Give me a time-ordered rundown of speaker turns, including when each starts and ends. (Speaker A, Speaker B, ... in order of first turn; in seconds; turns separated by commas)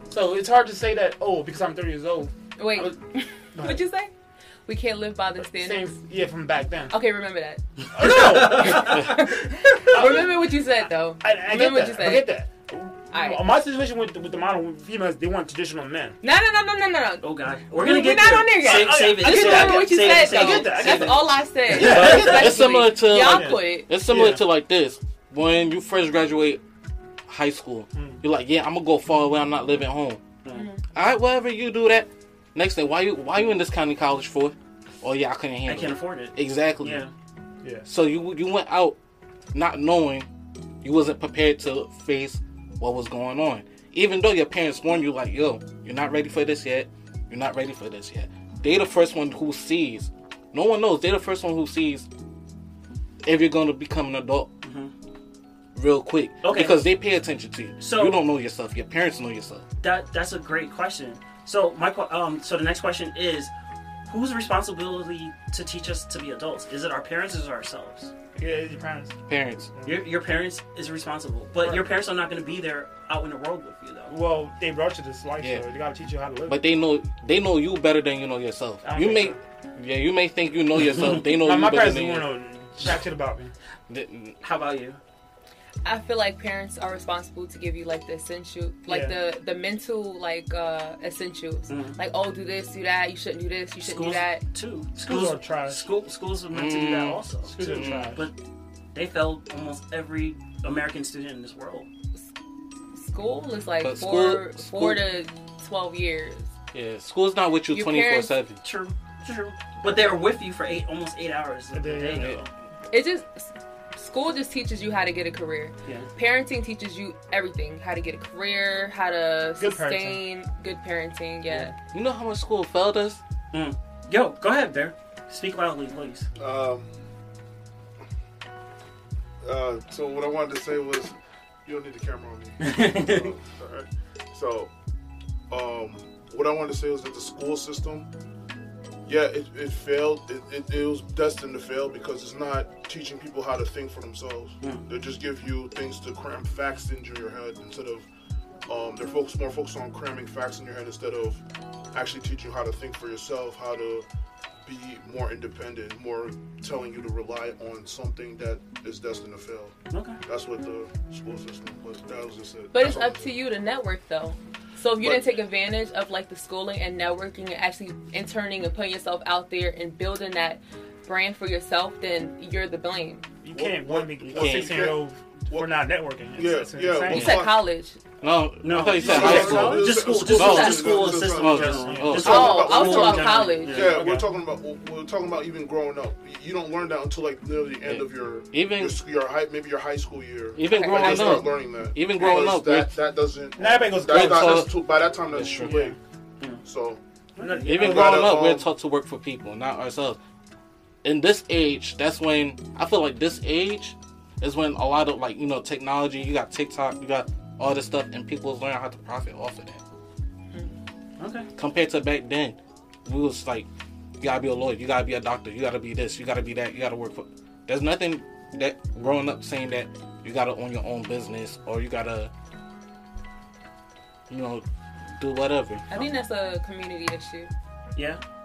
Speaker A: 0.1-2.9, Speaker B: 2.6-4.1, Speaker A: 3.5-3.8, Speaker B: 4.7-5.9, Speaker A: 5.5-6.9, Speaker B: 6.9-12.3, Speaker A: 7.9-16.2, Speaker C: 8.0-9.1, Speaker B: 13.1-13.4, Speaker B: 16.2-23.9, Speaker C: 17.2-21.2, Speaker A: 18.6-24.4, Speaker D: 21.7-26.6, Speaker C: 21.7-22.5, Speaker D: 27.3-30.2, Speaker A: 27.9-28.2, Speaker B: 30.5-30.8, Speaker D: 30.9-37.0, Speaker C: 35.6-37.1, Speaker D: 37.9-39.0, Speaker D: 39.5-40.3, Speaker D: 40.8-52.1, Speaker D: 53.2-54.5, Speaker C: 54.6-54.9, Speaker D: 55.8-59.6, Speaker C: 56.4-56.8, Speaker C: 57.8-58.2, Speaker C: 59.8-63.5, Speaker C: 64.1-68.1, Speaker A: 68.3-69.2, Speaker D: 69.3-69.7, Speaker A: 69.8-70.0, Speaker C: 69.8-74.2, Speaker A: 71.6-71.9, Speaker A: 74.1-76.6, Speaker D: 75.4-75.7, Speaker D: 76.5-82.3, Speaker A: 78.8-79.4, Speaker C: 80.9-81.2, Speaker A: 81.3-83.5, Speaker D: 83.9-84.4, Speaker C: 84.4-85.0, Speaker B: 85.8-94.4, Speaker A: 88.9-89.2, Speaker C: 91.7-92.0, Speaker C: 93.8-98.3, Speaker A: 95.0-95.8, Speaker D: 96.5-98.2, Speaker A: 97.5-98.2, Speaker C: 98.9-101.9, Speaker B: 103.0-106.5, Speaker D: 103.8-105.0, Speaker D: 106.7-108.6, Speaker B: 107.7-108.3, Speaker C: 108.6-112.4, Speaker A: 111.7-112.4, Speaker B: 112.9-121.7, Speaker A: 119.6-120.2, Speaker D: 121.9-123.2, Speaker C: 123.5-126.3, Speaker E: 126.4-126.9, Speaker E: 129.4-131.1, Speaker E: 131.7-134.7, Speaker C: 132.6-133.3, Speaker E: 135.5-138.1, Speaker E: 139.1-148.1, Speaker E: 148.7-151.4, Speaker E: 151.9-154.1, Speaker E: 154.7-163.3, Speaker C: 159.9-160.2, Speaker B: 162.7-173.2, Speaker E: 165.0-165.4, Speaker A: 173.4-177.3, Speaker E: 173.5-177.6, Speaker D: 174.4-174.6, Speaker B: 177.1-178.0, Speaker D: 177.1-177.5, Speaker D: 178.2-182.9, Speaker C: 178.6-184.0, Speaker A: 178.9-179.8, Speaker E: 178.9-196.0, Speaker B: 180.4-180.9, Speaker A: 181.8-182.2, Speaker B: 182.2-183.8, Speaker A: 183.7-184.3, Speaker D: 187.8-189.0, Speaker D: 190.6-193.0, Speaker B: 190.6-191.4, Speaker A: 192.2-192.4, Speaker A: 193.6-194.7, Speaker D: 194.1-195.8, Speaker A: 195.6-195.9, Speaker E: 196.6-197.0, Speaker A: 197.4-198.3, Speaker D: 197.6-200.2, Speaker E: 197.8-198.7, Speaker D: 201.0-209.8, Speaker C: 211.2-211.5, Speaker D: 211.6-213.7, Speaker D: 214.2-222.3, Speaker D: 224.3-224.7, Speaker D: 225.2-225.8, Speaker B: 225.9-227.5, Speaker C: 228.0-228.2